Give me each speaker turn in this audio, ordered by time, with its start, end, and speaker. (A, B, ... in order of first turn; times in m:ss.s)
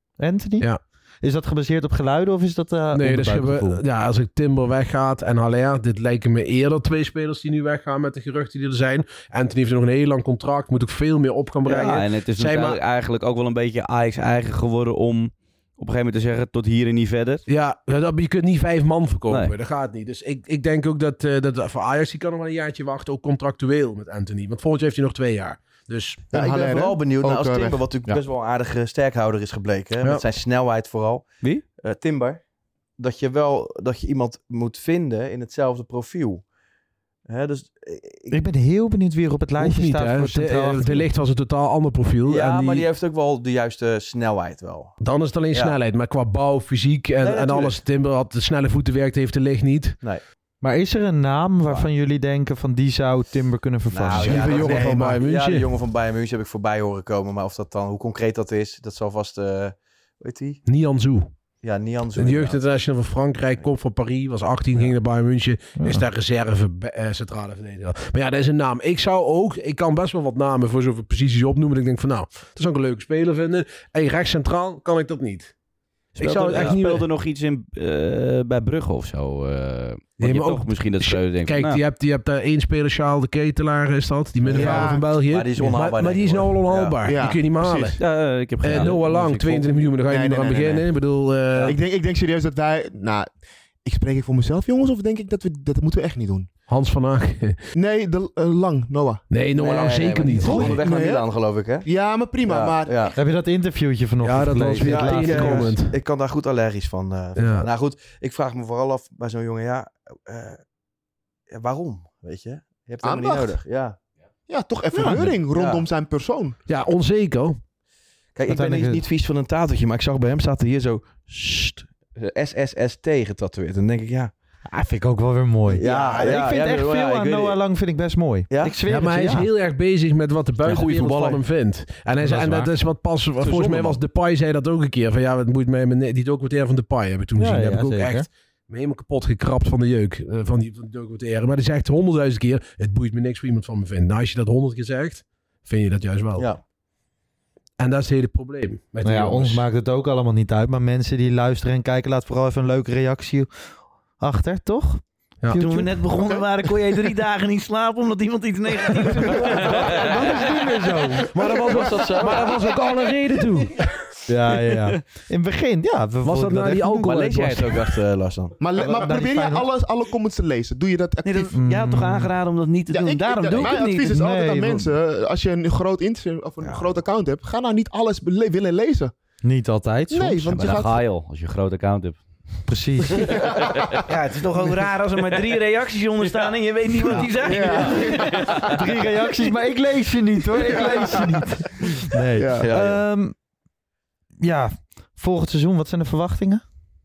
0:00.2-0:03.8 A
0:02.9-0:12.8 B
0:11.6-0:17.4 C
0:17.5-0:26.3 B
0:26.3-0:27.8 D
0:26.3-0:32.4 E
0:33.0-0:36.4 E
0:37.2-0:38.4 E
0:38.3-0:41.0 A
0:39.6-0:42.8 B
0:42.2-0:44.9 E
0:45.0-0:50.0 B
0:47.2-0:47.8 E
0:50.6-0:54.6 A
0:53.9-1:00.6 E
0:54.1-0:55.7 B
1:00.6-1:01.3 B
1:01.6-1:02.6 E
1:02.1-1:15.5 B
1:05.8-1:06.0 A
1:16.1-1:17.1 B
1:16.2-1:21.8 C
1:20.2-1:28.0 B
1:24.4-1:27.0 E
1:24.5-1:25.1 D
1:27.0-1:28.0 D
1:28.0-1:29.9 C
1:28.6-1:31.7 B
1:30.0-1:31.0 D
1:31.6-1:33.3 D
1:33.8-1:36.5 D
1:36.7-1:37.6 B
1:37.7-1:39.3 D
1:39.3-1:40.8 B
1:39.6-1:41.9 E
1:40.4-1:40.7 A
1:40.4-1:41.3 D
1:41.8-1:43.1 D
1:42.4-1:43.1 E
1:43.1-1:45.8 A
1:44.2-1:45.9 B
1:44.7-1:50.6 E
1:47.4-1:47.7 B
1:51.5-1:54.0 E
1:53.0-1:53.6 D
1:54.5-1:56.6 D
1:55.0-1:55.3 A
1:55.5-1:55.8 E
1:56.7-1:57.6 B
1:58.3-2:04.3 E
1:58.5-1:59.0 A
2:04.7-2:09.5 A
2:05.7-2:07.6 E
2:05.8-2:06.3 B
2:08.5-2:08.7 E
2:08.9-2:26.5 B
2:10.6-2:11.4 E
2:12.2-2:12.7 A
2:13.4-2:14.0 E
2:17.4-2:18.3 A
2:27.8-2:29.6 B
2:29.0-2:33.5 A
2:34.2-2:35.9 A
2:35.6-2:39.4 F
2:39.8-2:41.3 A
2:41.2-2:43.8 B
2:41.7-2:42.6 E
2:44.3-2:47.2 A
2:46.2-2:47.8 B
2:47.0-2:48.5 E
2:48.6-2:51.5 D
2:48.8-2:49.6 A
2:51.2-2:54.2 F
2:51.5-2:52.3 A
2:52.9-2:59.1 D
2:54.1-2:54.9 A
2:59.4-3:00.5 A
3:00.1-3:01.0 D
3:00.5-3:02.2 C
3:02.7-3:03.3 A
3:04.1-3:08.4 F
3:04.5-3:04.9 D
3:07.3-3:08.6 D
3:08.6-3:13.3 A
3:10.8-3:11.2 D
3:12.3-3:12.7 D
3:12.6-3:13.0 E
3:14.4-3:16.6 A